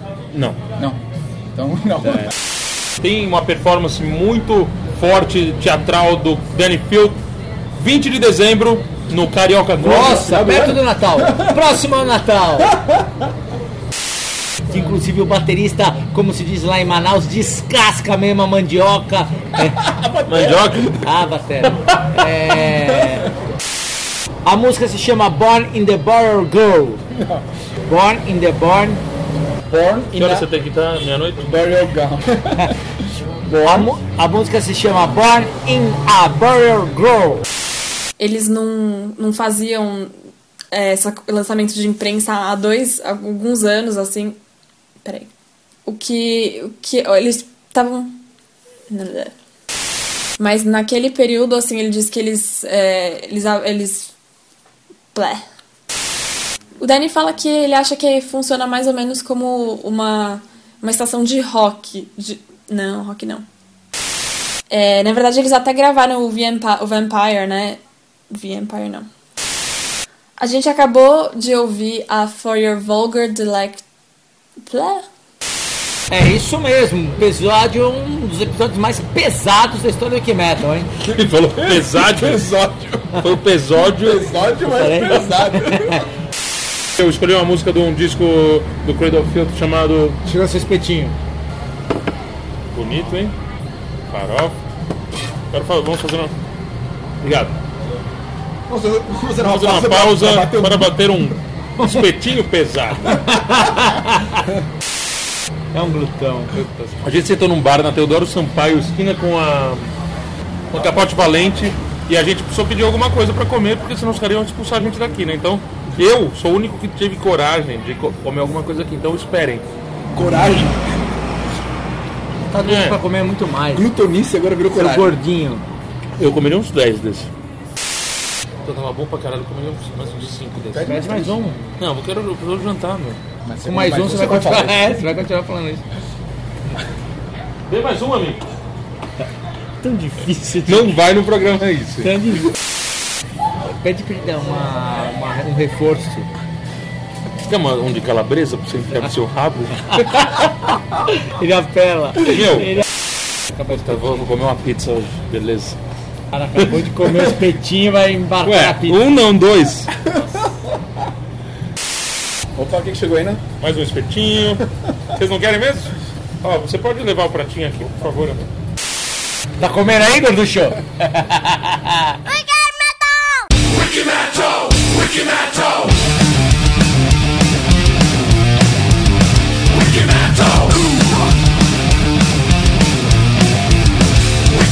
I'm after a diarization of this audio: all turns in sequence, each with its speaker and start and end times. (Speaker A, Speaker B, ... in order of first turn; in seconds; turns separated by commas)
Speaker A: 0.3-0.6, Speaker B: 1.6-2.3, Speaker A: 3.0-7.2, Speaker A: 7.8-10.3, Speaker B: 9.8-11.6, Speaker C: 9.8-12.7, Speaker B: 12.6-13.0, Speaker C: 14.7-19.7, Speaker B: 19.6-21.0, Speaker A: 20.3-20.9, Speaker C: 21.0-23.2, Speaker C: 24.5-27.0, Speaker B: 27.1-27.4, Speaker C: 27.9-29.0, Speaker B: 29.7-30.5, Speaker A: 30.2-31.5, Speaker B: 31.4-32.7, Speaker B: 33.5-33.9, Speaker C: 33.6-37.4, Speaker D: 38.2-40.1, Speaker D: 40.7-44.4, Speaker D: 45.0-45.3, Speaker D: 45.9-48.2, Speaker D: 48.9-49.3, Speaker D: 50.4-54.1, Speaker D: 55.1-55.4, Speaker D: 56.8-63.4, Speaker D: 64.7-69.1, Speaker D: 70.4-73.8, Speaker D: 74.7-75.0, Speaker C: 76.1-80.9, Speaker B: 81.0-83.1, Speaker A: 81.1-82.5, Speaker A: 83.2-84.3, Speaker B: 83.8-86.0, Speaker C: 84.6-86.0, Speaker A: 87.0-90.2, Speaker C: 90.2-91.1, Speaker A: 92.7-93.3, Speaker A: 94.1-94.6, Speaker A: 95.5-96.3, Speaker A: 97.2-97.5, Speaker B: 98.7-100.9, Speaker A: 99.4-103.1, Speaker C: 101.8-102.1, Speaker C: 103.1-104.4, Speaker C: 105.7-107.0, Speaker A: 107.0-109.9, Speaker A: 110.7-119.6, Speaker B: 120.2-120.8, Speaker C: 122.5-123.9, Speaker A: 122.7-123.0, Speaker B: 123.8-125.2, Speaker C: 124.7-125.6, Speaker A: 126.2-127.3, Speaker A: 128.7-131.1, Speaker B: 130.7-131.4, Speaker C: 130.8-131.6, Speaker A: 131.8-133.2, Speaker B: 133.4-134.8, Speaker C: 133.6-135.8, Speaker A: 137.7-138.4, Speaker C: 139.8-141.0, Speaker A: 140.7-142.1, Speaker C: 142.0-142.5, Speaker C: 143.6-146.3, Speaker A: 147.4-149.9, Speaker C: 149.9-150.5, Speaker C: 151.1-152.8, Speaker A: 152.3-152.7, Speaker C: 153.6-154.1, Speaker A: 153.7-155.8, Speaker C: 156.3-159.0, Speaker A: 158.4-159.9, Speaker B: 160.1-160.4, Speaker B: 162.6-163.4, Speaker A: 163.6-168.4, Speaker C: 169.6-172.2